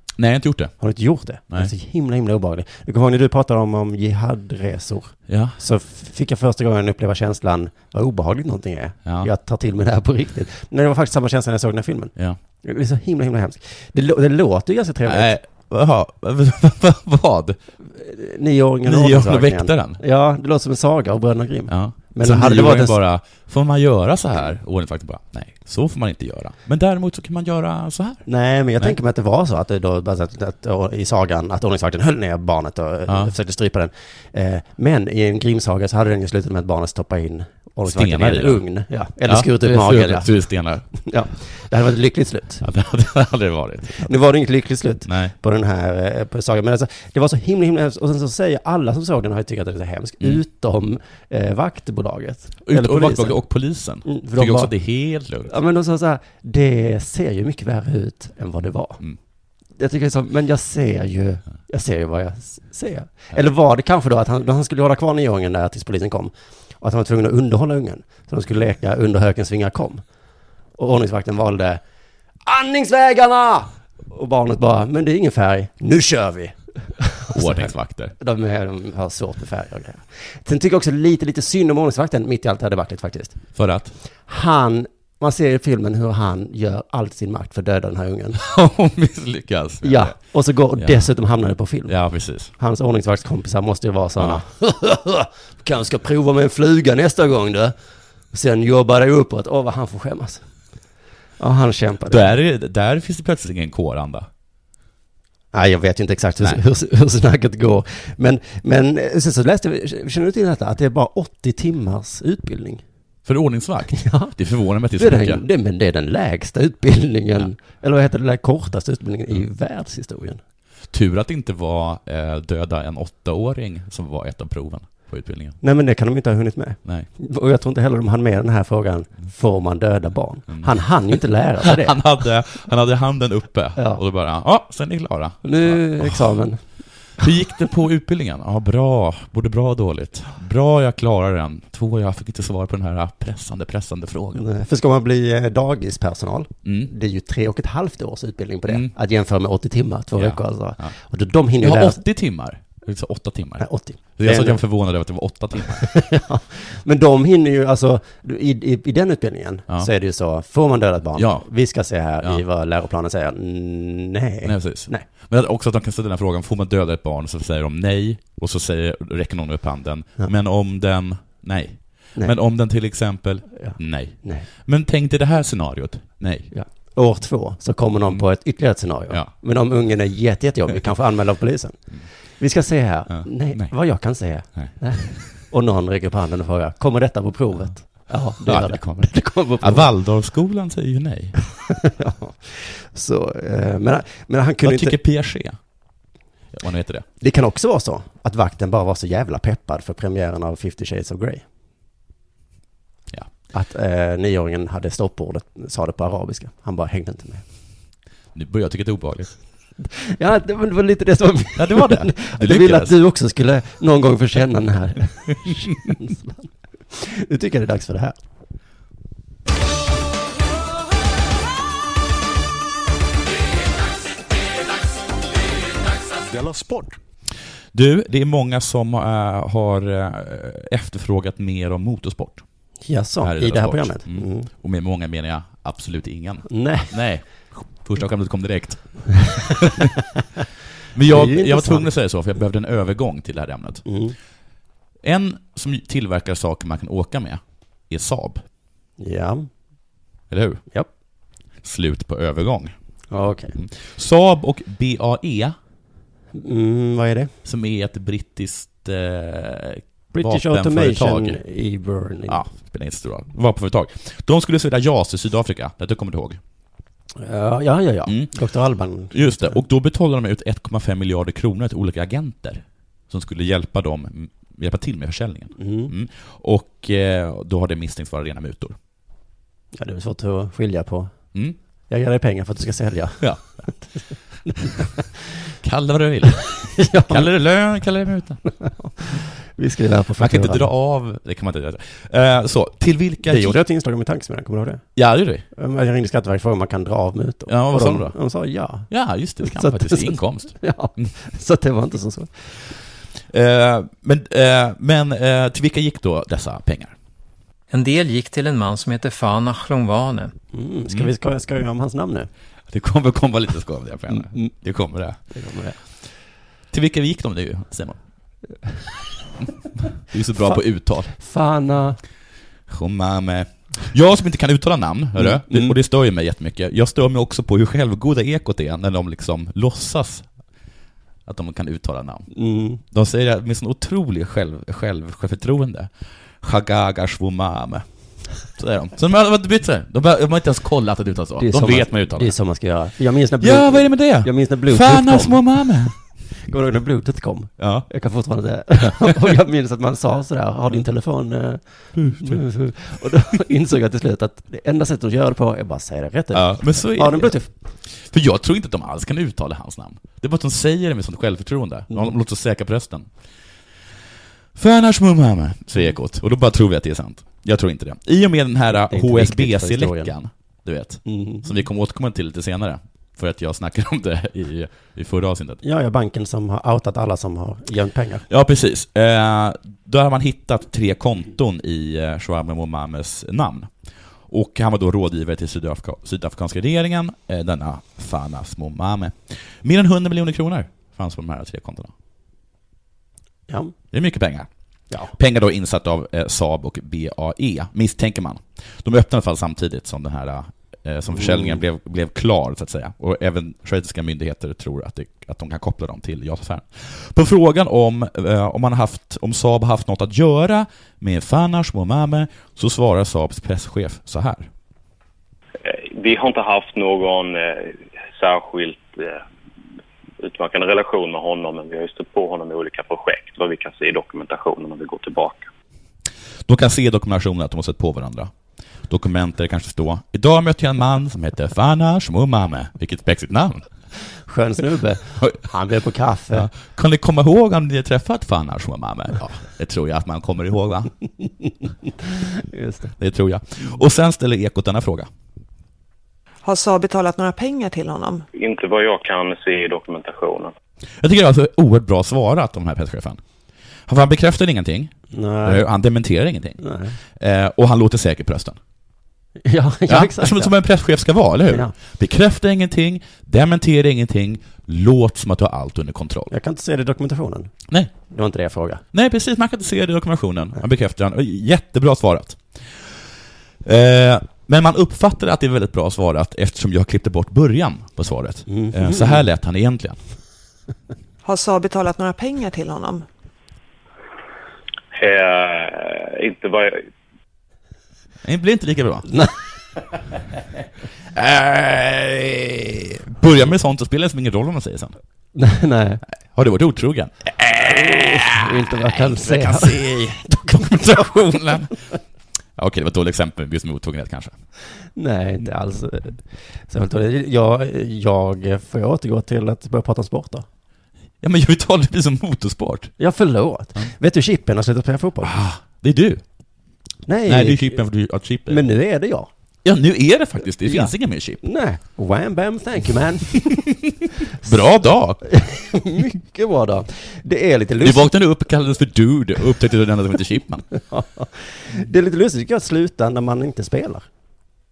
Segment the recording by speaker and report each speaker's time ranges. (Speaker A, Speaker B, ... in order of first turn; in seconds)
Speaker A: 0.2-0.7, 5.3-5.6, 9.0-9.3, 15.1-17.6, 18.8-20.0, 21.7-28.2, 33.1-33.3, 37.8-38.6, 39.2-40.9, 42.6-44.1, 45.0-45.3, 52.6-55.5, 77.3-78.1, 83.5-83.9, 88.4-90.2, 90.8-91.0, 91.9-92.5, 94.2-94.4, 102.1-104.3, 113.2-115.4, 120.9-125.6, 130.5-130.7, 131.6-136.2, 137.2-144.4, 146.6-146.9, 148.7-148.9, 150.2-150.9, 151.6-155.9, 161.2-161.5, 164.4-176.5, 183.1-183.7, 188.4-191.3, 194.6-195.6, 196.5-197.0, 208.3-209.3, 211.6-212.9, 227.7-232.4, 233.2-239.9, 240.9-243.8, 245.0-248.4, 250.3-250.6, 251.6-252.7, 253.5-255.5, 257.4-261.4, 262.3-266.4, 268.1-268.3, 269.1-278.8, 283.2-283.6, 285.6-288.4, 290.2-293.6, 294.9-295.4, 297.5-298.1, 298.9-301.1, 303.3-306.9, 312.7-315.2, 316.7-318.0, 320.1-321.1, 322.7-330.2, 331.2-332.3, 332.9-335.9, 336.4-337.8, 338.4-342.3, 343.4-345.9, 347.6-347.9, 349.0-349.3, 352.0-352.4, 356.3-357.3, 358.0-363.1, 364.6-375.6, 378.3-383.7, 384.3-391.9, 393.9-394.5, 395.1-414.5, 426.4-428.3, 428.9-433.7, 436.3-440.9, 443.0-445.1, 451.0-453.2, 453.9-454.9, 455.4-456.6, 457.2-458.6, 459.9-466.3, 468.9-472.9, 473.6-480.0, 488.2-489.1, 491.1-494.9, 496.3-501.7, 502.6-504.3, 511.2-512.9, 515.2-516.2, 517.2-518.6, 519.6-521.4, 524.4-525.2, 527.8-530.6
Speaker B: 0.8-12.1, 12.6-15.3, 17.9-23.0, 28.2-40.3, 41.0-42.6, 44.0-53.4, 54.0-54.7, 55.4-59.0, 59.8-70.0, 70.8-71.8, 72.4-83.4, 84.3-88.4, 89.8-91.9, 92.5-97.7, 98.3-100.4, 101.4-102.3, 105.5-112.8, 113.9-114.3, 115.0-120.4, 125.6-132.0, 133.8-134.0, 135.4-136.6, 144.3-152.0, 153.6-154.6, 155.8-165.0, 173.5-174.5, 176.5-181.8, 182.4-189.9, 191.8-194.9, 197.2-201.4, 203.5-207.4, 209.8-218.2, 232.8-234.5, 236.5-236.9, 241.1-241.9, 243.8-244.1, 249.0-249.5, 253.1-253.5, 256.3-257.3, 260.1-262.4, 267.2-269.6, 275.6-275.9, 279.7-281.1, 281.9-283.7, 284.4-285.0, 286.8-287.3, 288.6-290.7, 293.2-294.8, 295.5-298.9, 299.4-302.5, 310.5-312.3, 314.1-314.5, 315.3-315.8, 321.1-322.0, 325.2-325.8, 332.3-332.8, 341.4-345.6, 346.4-357.5, 368.7-370.1, 371.1-371.5, 375.6-378.2, 401.1-401.6, 434.3-436.5, 441.9-442.9, 455.1-455.6, 456.6-456.9, 459.4-460.5, 466.3-467.5, 468.1-468.8, 478.5-479.2, 495.3-496.0, 497.5-501.2, 504.9-510.4, 513.0-515.3, 517.1-517.8, 518.5-519.3, 520.6-523.6, 525.3-528.1, 530.8-534.0
Speaker C: 307.7-310.3
Speaker D: 415.6-419.2, 420.2-425.5, 448.3-450.5, 484.9-486.8
Speaker E: 446.4-448.2, 481.2-483.0